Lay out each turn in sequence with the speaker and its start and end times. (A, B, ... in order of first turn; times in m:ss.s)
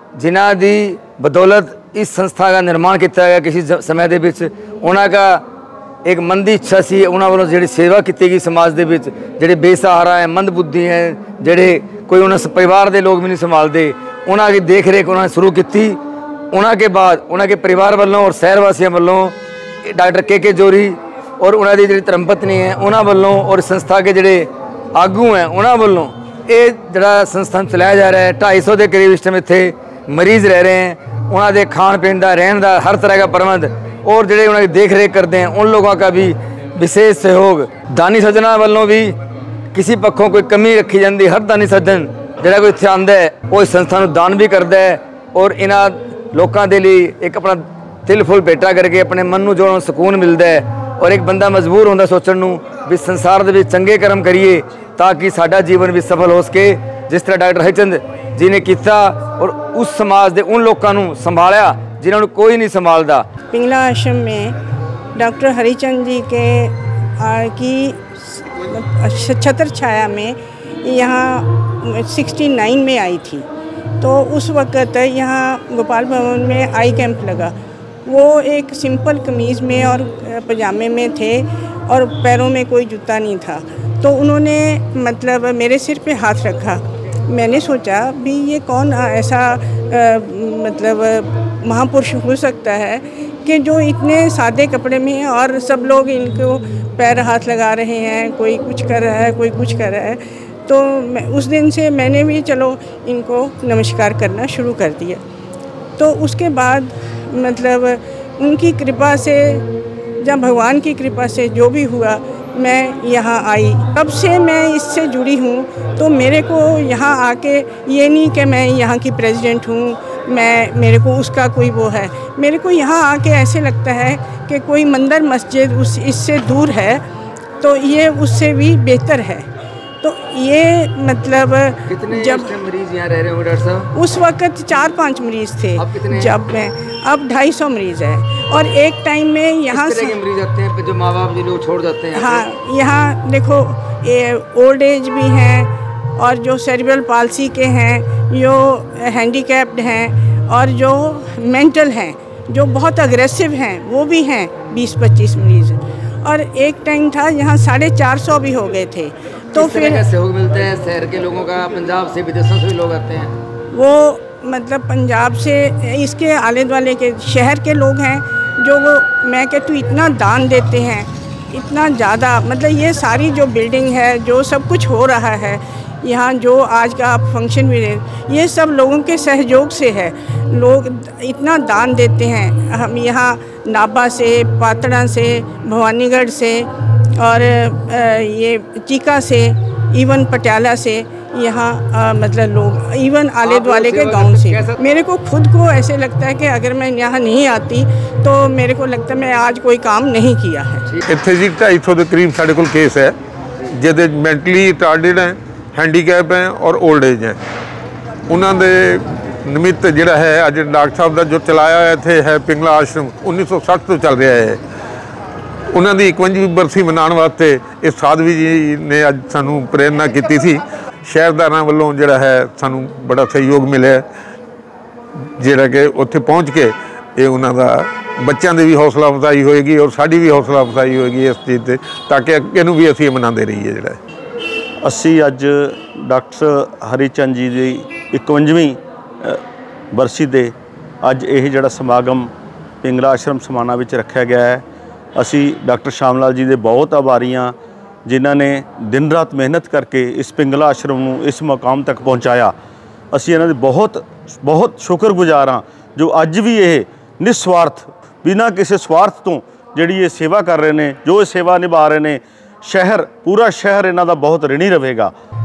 0:00.2-0:05.4 A
0:06.0-0:16.0 A
0:16.5-0:39.2 A
0:39.7-1:03.3 A
1:03.5-1:04.6 B
1:05.2-1:13.4 B
1:14.0-1:17.5 B
1:18.0-1:45.2 B
1:46.0-1:49.7 B
1:50.2-2:07.0 B
2:07.6-2:09.5 B
2:10.0-2:12.5 B
2:11.9-2:13.9 A
2:13.9-2:20.2 B
2:15.8-2:16.3 A
2:19.7-2:22.4 A
2:22.1-2:40.1 B
2:39.5-2:43.3 A
2:43.7-3:20.9 B
3:13.4-3:14.8 A
3:21.1-3:23.1 C
3:23.7-3:27.4 C
3:28.3-3:34.6 C
3:35.7-3:44.0 C
3:45.4-3:54.0 C
3:54.8-3:59.4 D
3:59.9-4:04.6 D
4:05.2-4:12.5 D
4:13.1-4:25.1 D